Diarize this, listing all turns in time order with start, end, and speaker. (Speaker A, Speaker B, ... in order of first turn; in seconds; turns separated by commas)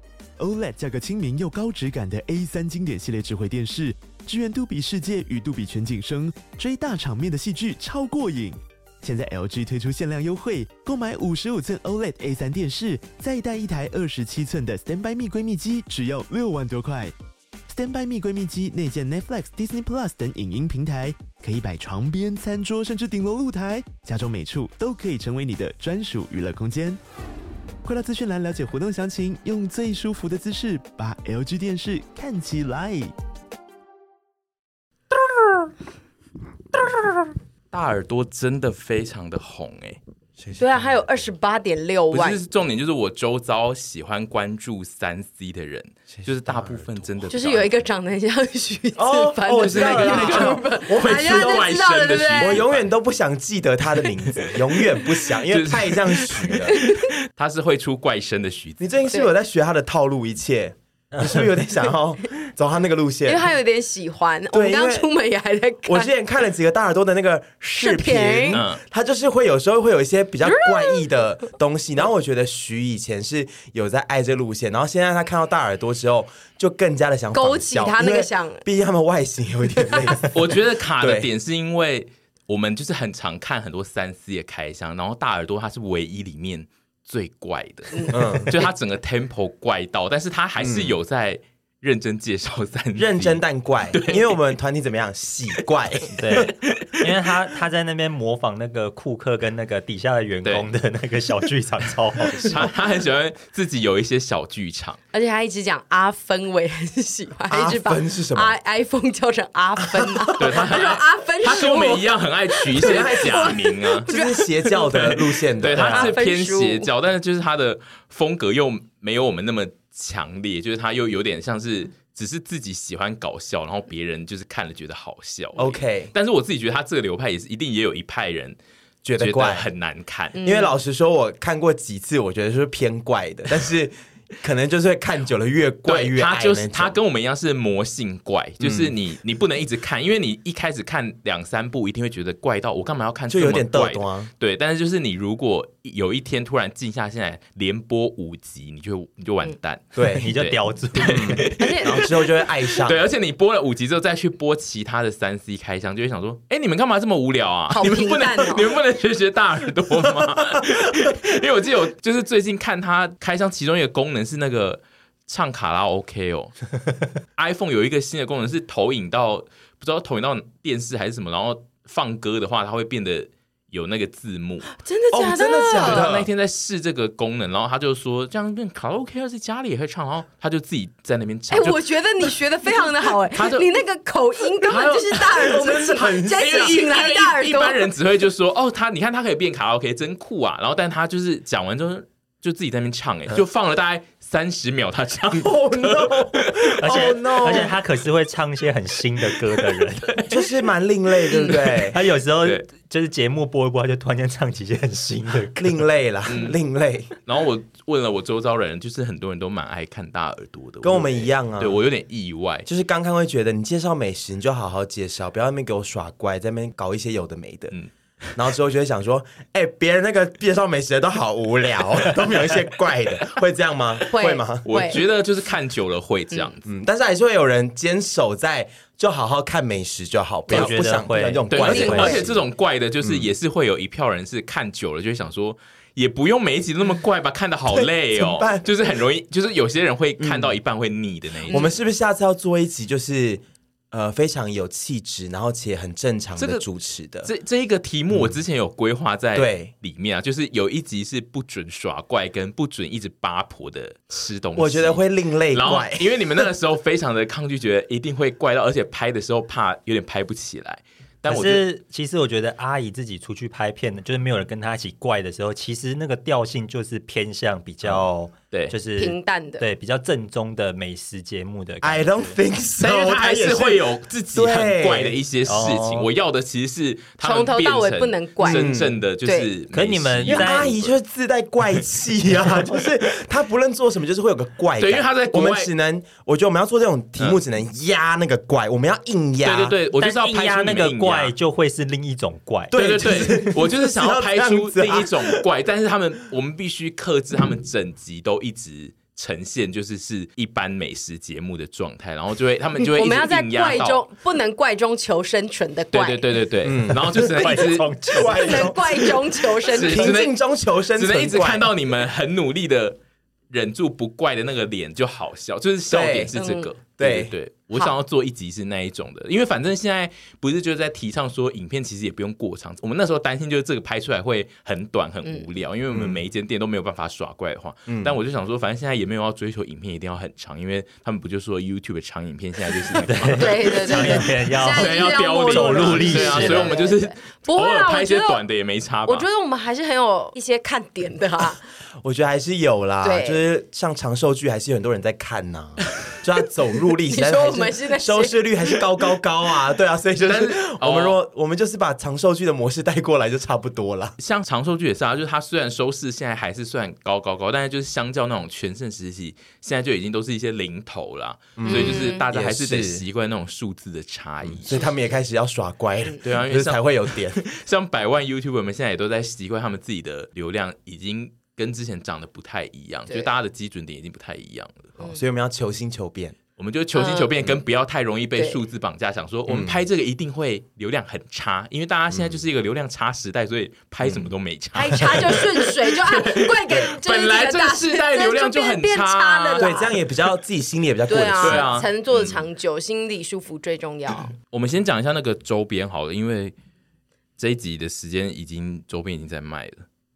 Speaker A: 0.4-17.1, Speaker A: 17.7-27.0, Speaker A: 27.8-33.1, Speaker B: 37.7-40.0, Speaker C: 40.6-42.4, Speaker B: 42.1-47.8, Speaker C: 47.3-52.6, Speaker D: 49.0-51.8, Speaker B: 49.6-52.9, Speaker D: 52.4-56.8, Speaker B: 54.3-58.8, Speaker C: 56.7-57.1, Speaker D: 58.8-63.5, Speaker C: 63.2-66.1, Speaker D: 64.5-65.1, Speaker D: 65.8-81.3, Speaker C: 67.8-68.6, Speaker B: 68.5-68.8, Speaker C: 70.5-71.0, Speaker C: 77.3-78.6, Speaker C: 79.8-80.2, Speaker B: 80.3-94.5, Speaker D: 88.1-88.6, Speaker D: 90.6-91.0, Speaker D: 93.0-96.5, Speaker E: 96.2-102.7, Speaker B: 96.3-97.1, Speaker B: 102.4-105.0, Speaker C: 105.1-114.8, Speaker D: 107.5-108.5, Speaker D: 109.8-110.6, Speaker B: 110.4-114.1, Speaker D: 112.7-115.9, Speaker B: 114.7-128.6, Speaker E: 115.7-116.1, Speaker C: 115.8-116.9, Speaker D: 125.5-126.1, Speaker D: 129.0-129.7, Speaker B: 129.2-130.4, Speaker C: 130.3-130.7, Speaker D: 130.4-137.0, Speaker B: 135.8-166.5, Speaker D: 138.6-138.9, Speaker D: 143.3-144.3, Speaker D: 149.9-150.3, Speaker E: 150.1-151.5, Speaker D: 151.0-153.0, Speaker C: 151.6-152.0, Speaker C: 157.7-158.7, Speaker B: 167.3-174.7, Speaker C: 174.8-176.1, Speaker D: 175.1-176.3, Speaker B: 175.8-182.3, Speaker C: 181.5-187.9, Speaker B: 183.1-183.7, Speaker B: 184.6-197.7, Speaker D: 185.3-186.7, Speaker D: 195.3-197.7, Speaker E: 196.8-200.3, Speaker B: 199.5-200.3, Speaker D: 200.3-202.0, Speaker B: 201.4-201.7, Speaker E: 201.8-205.8, Speaker D: 205.6-207.1, Speaker B: 206.2-206.6, Speaker B: 207.2-212.7, Speaker D: 210.8-211.8, Speaker D: 212.7-217.8, Speaker D: 218.3-224.9, Speaker C: 224.1-225.0, Speaker B: 224.6-226.6, Speaker D: 226.6-232.4, Speaker E: 230.5-232.2, Speaker B: 231.5-241.6, Speaker D: 233.0-233.3, Speaker D: 237.7-238.7, Speaker D: 240.2-240.5, Speaker D: 241.5-247.3, Speaker B: 246.4-246.7, Speaker B: 247.2-261.6, Speaker D: 249.3-249.7, Speaker D: 254.6-256.5, Speaker E: 261.3-272.3, Speaker B: 267.8-268.7, Speaker C: 269.0-269.6, Speaker D: 271.8-275.2, Speaker B: 272.8-280.9, Speaker E: 275.4-276.1, Speaker C: 277.2-278.7, Speaker D: 278.4-278.9, Speaker C: 279.2-279.5, Speaker E: 279.7-280.7, Speaker D: 280.3-289.8, Speaker B: 284.8-285.7, Speaker B: 289.4-291.3, Speaker E: 290.0-293.3, Speaker D: 292.7-295.4, Speaker B: 292.8-304.0, Speaker C: 302.8-306.3, Speaker B: 305.9-307.9, Speaker D: 306.6-311.7, Speaker E: 307.1-308.8, Speaker C: 308.2-310.2, Speaker B: 309.7-310.3, Speaker B: 310.9-313.0, Speaker B: 313.5-339.2, Speaker D: 315.9-316.3, Speaker C: 316.3-316.7, Speaker D: 317.0-317.3, Speaker D: 325.9-326.2, Speaker D: 327.9-328.1, Speaker E: 332.9-336.7, Speaker C: 333.3-338.4, Speaker C: 339.1-341.6, Speaker D: 342.0-354.1, Speaker C: 343.0-343.4, Speaker C: 347.0-348.3, Speaker B: 350.2-351.1, Speaker B: 354.2-364.8, Speaker D: 361.6-363.0, Speaker C: 361.6-362.2, Speaker D: 364.4-367.4, Speaker B: 366.2-374.9, Speaker D: 375.0-376.4, Speaker B: 376.6-389.7, Speaker C: 376.9-377.3, Speaker D: 379.5-379.8, Speaker D: 382.1-382.4, Speaker D: 384.0-384.3, Speaker C: 384.7-389.9, Speaker D: 389.6-391.8, Speaker C: 391.1-394.3, Speaker B: 391.4-392.3, Speaker B: 394.4-396.5, Speaker B: 397.4-399.8